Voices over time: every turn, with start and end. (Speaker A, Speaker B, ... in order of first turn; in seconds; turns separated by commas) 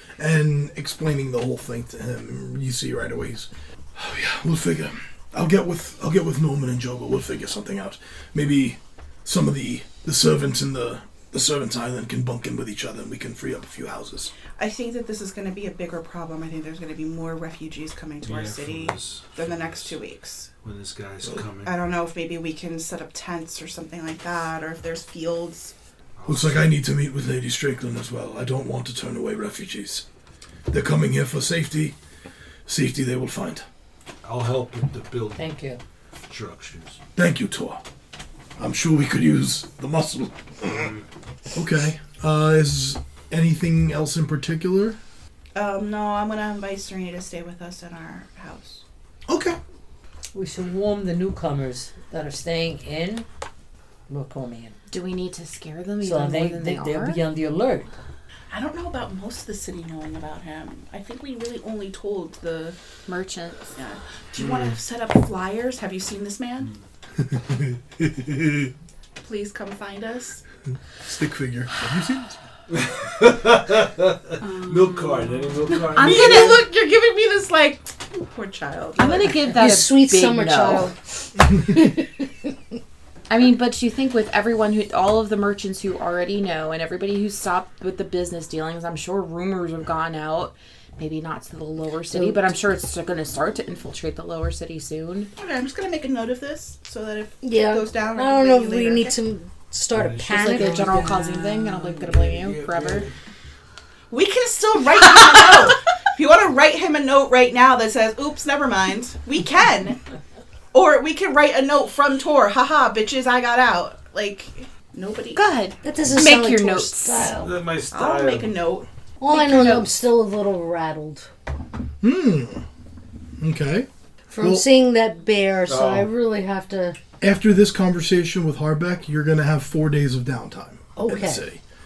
Speaker A: 0.2-14.3, Speaker B: 14.6-20.5, Speaker C: 18.2-20.0, Speaker C: 20.6-21.8, Speaker B: 21.6-25.7, Speaker C: 26.2-26.7, Speaker A: 26.3-30.0, Speaker A: 30.7-31.9, Speaker A: 32.7-33.6, Speaker C: 34.2-35.5, Speaker D: 35.4-35.8, Speaker C: 36.3-37.0, Speaker A: 37.2-37.8, Speaker A: 38.6-40.9, Speaker C: 40.7-41.0, Speaker A: 41.5-45.0, Speaker B: 45.5-48.8, Speaker A: 49.3-49.6, Speaker D: 50.3-53.3, Speaker D: 54.1-54.8, Speaker E: 54.9-57.2, Speaker D: 56.0-57.9, Speaker B: 58.5-62.8, Speaker E: 63.1-63.7, Speaker B: 63.8-66.7, Speaker C: 64.4-64.7, Speaker A: 67.2-68.7, Speaker B: 69.2-70.4, Speaker A: 71.1-72.4, Speaker C: 72.7-76.6, Speaker B: 74.7-79.5, Speaker E: 76.0-76.5, Speaker E: 79.0-80.9, Speaker F: 79.5-82.5, Speaker E: 83.3-95.3, Speaker F: 92.1-92.5, Speaker B: 95.4-99.2, Speaker F: 97.4-101.0, Speaker C: 99.9-103.1, Speaker E: 100.3-103.1, Speaker B: 104.1-110.0, Speaker B: 110.7-115.4, Speaker E: 115.3-117.3, Speaker F: 115.8-117.6, Speaker C: 117.3-118.6, Speaker B: 117.9-119.8, Speaker F: 119.2-121.3, Speaker A: 122.0-122.6, Speaker A: 123.4-123.9, Speaker F: 124.3-127.0, Speaker A: 124.4-124.7, Speaker C: 125.7-126.1, Speaker A: 127.2-131.6, Speaker F: 131.0-131.4